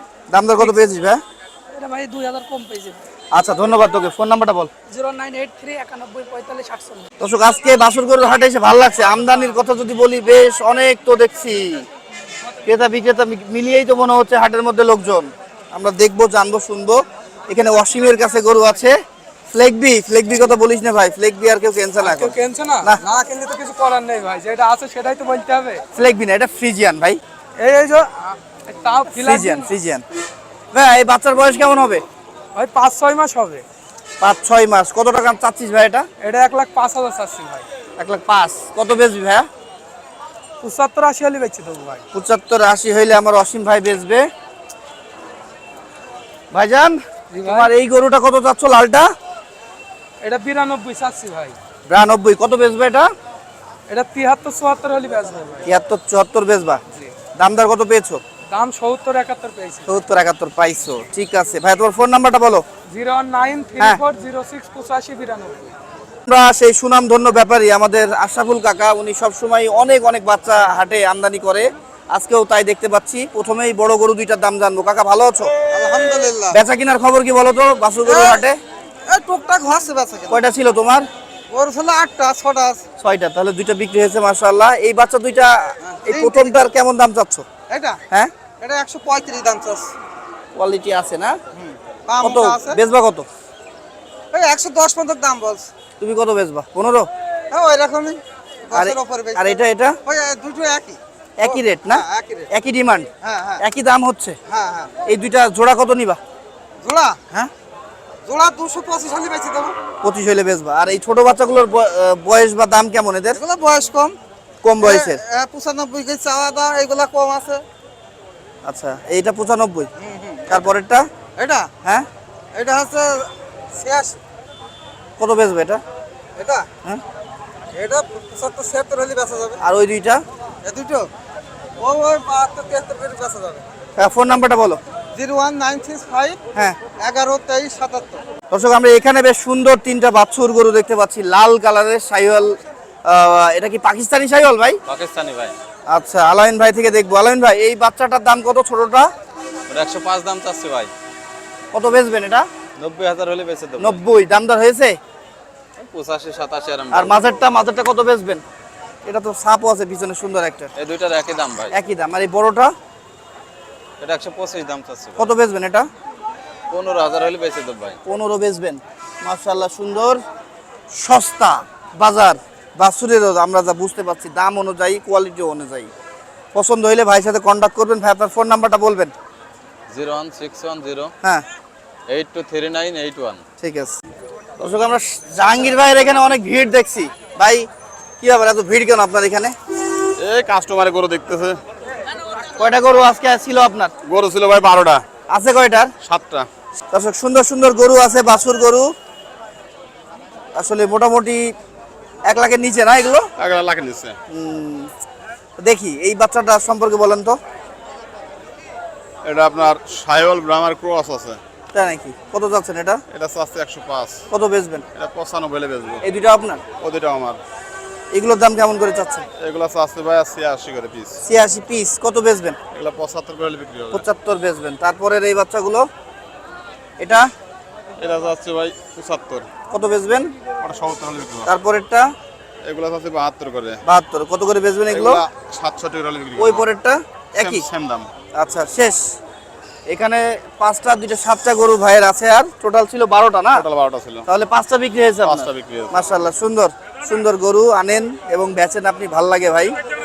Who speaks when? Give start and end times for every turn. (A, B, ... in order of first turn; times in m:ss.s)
0:00.3-0:01.2 A
0:01.7-0:03.1 B
0:03.3-0:04.7 A
0:04.9-0:07.1 B
0:07.2-0:11.9 A
0:12.6-0:19.0 A
0:19.5-0:23.0 A
0:22.0-0:25.8 B
0:26.0-0:27.2 A
0:27.6-0:29.7 B
0:29.1-0:30.0 A
0:30.7-0:32.0 A
0:32.6-0:33.6 B
0:34.2-0:36.1 A
0:36.2-0:37.7 B
0:38.0-0:39.5 A
0:40.6-0:42.0 B
0:42.1-0:44.2 A
0:46.5-0:49.1 A
0:47.3-0:47.7 B
0:50.2-0:51.6 B
0:51.9-0:53.1 A
0:53.9-0:55.7 B
0:55.7-0:56.8 A
0:57.4-0:58.2 A
0:58.5-1:00.0 B
0:59.9-1:02.6 A
1:02.9-1:05.7 B
1:06.3-1:15.5 A
1:15.6-1:16.6 C
1:16.5-1:18.6 A
1:18.1-1:18.5 C
1:19.1-1:20.4 C
1:20.3-1:21.1 A
1:21.5-1:22.8 C
1:23.0-1:27.5 A
1:25.8-1:26.6 C
1:27.7-1:28.0 C
1:28.6-1:29.9 C
1:30.6-1:31.4 A
1:31.5-1:32.8 C
1:32.2-1:33.3 A
1:34.3-1:35.7 C
1:36.0-1:37.1 A
1:37.5-1:42.5 C
1:38.7-1:40.0 A
1:41.4-1:43.1 A
1:43.2-1:43.6 C
1:43.6-1:44.4 A
1:44.5-1:44.9 C
1:45.1-1:46.2 A
1:46.8-1:47.2 C
1:48.3-1:49.8 C
1:50.0-1:53.4 A
1:53.4-1:54.2 C
1:54.6-1:55.2 A
1:54.8-1:57.6 C
1:58.6-1:59.9 A
2:00.0-2:00.6 C
2:00.5-2:01.1 A
2:01.4-2:01.7 C
2:02.5-2:04.2 C
2:05.2-2:05.8 A
2:06.4-2:06.7 C
2:07.7-2:09.6 C
2:09.6-2:10.2 A
2:10.6-2:11.1 C
2:11.8-2:13.6 C
2:14.0-2:14.8 A
2:15.2-2:18.2 C
2:18.5-2:24.8 A
2:24.9-2:25.6 D
2:25.9-2:29.1 A
2:29.7-2:30.9 D
2:31.7-2:32.5 A
2:32.8-2:34.0 D
2:33.8-2:35.0 A
2:35.8-2:37.2 D
2:36.9-2:38.4 A
2:39.0-2:40.7 A
2:40.8-2:41.7 D
2:41.7-2:42.7 A
2:44.0-2:45.3 D
2:45.2-2:45.9 A
2:46.7-2:48.0 D
2:48.0-2:50.2 A
2:50.9-2:55.9 A
2:56.5-2:59.1 A
2:59.9-3:01.1 D
3:02.1-3:03.4 D
3:03.6-3:04.0 A
3:04.6-3:07.7 A
3:08.2-3:09.5 A
3:10.2-3:11.6 E
3:12.6-3:13.9 A
3:14.0-3:15.0 E
3:15.3-3:15.9 A
3:16.0-3:16.5 E
3:16.9-3:18.9 A
3:20.6-3:21.5 A
3:22.3-3:23.3 A
3:23.4-3:24.2 E
3:24.3-3:24.9 A
3:25.6-3:27.4 A
3:29.2-3:31.4 E
3:31.7-3:33.0 A
3:33.1-3:34.2 E
3:34.3-3:34.8 A
3:35.0-3:36.0 E
3:36.0-3:36.6 A
3:36.8-3:37.4 E
3:38.1-3:39.3 A
3:39.4-3:41.2 E
3:41.2-3:42.6 A
3:42.7-3:44.0 E
3:43.9-3:45.9 A
3:47.0-3:47.3 A
3:48.0-3:49.5 E
3:49.7-3:50.3 A
3:50.6-3:51.5 E
3:51.5-3:52.1 A
3:52.6-3:53.8 E
3:53.9-3:55.2 A
3:54.9-3:56.7 E
3:56.4-3:57.7 A
3:57.4-3:58.1 E
3:58.4-3:59.1 A
3:59.9-4:03.7 A
4:03.5-4:04.3 E
4:04.3-4:09.8 A
4:05.2-4:06.2 E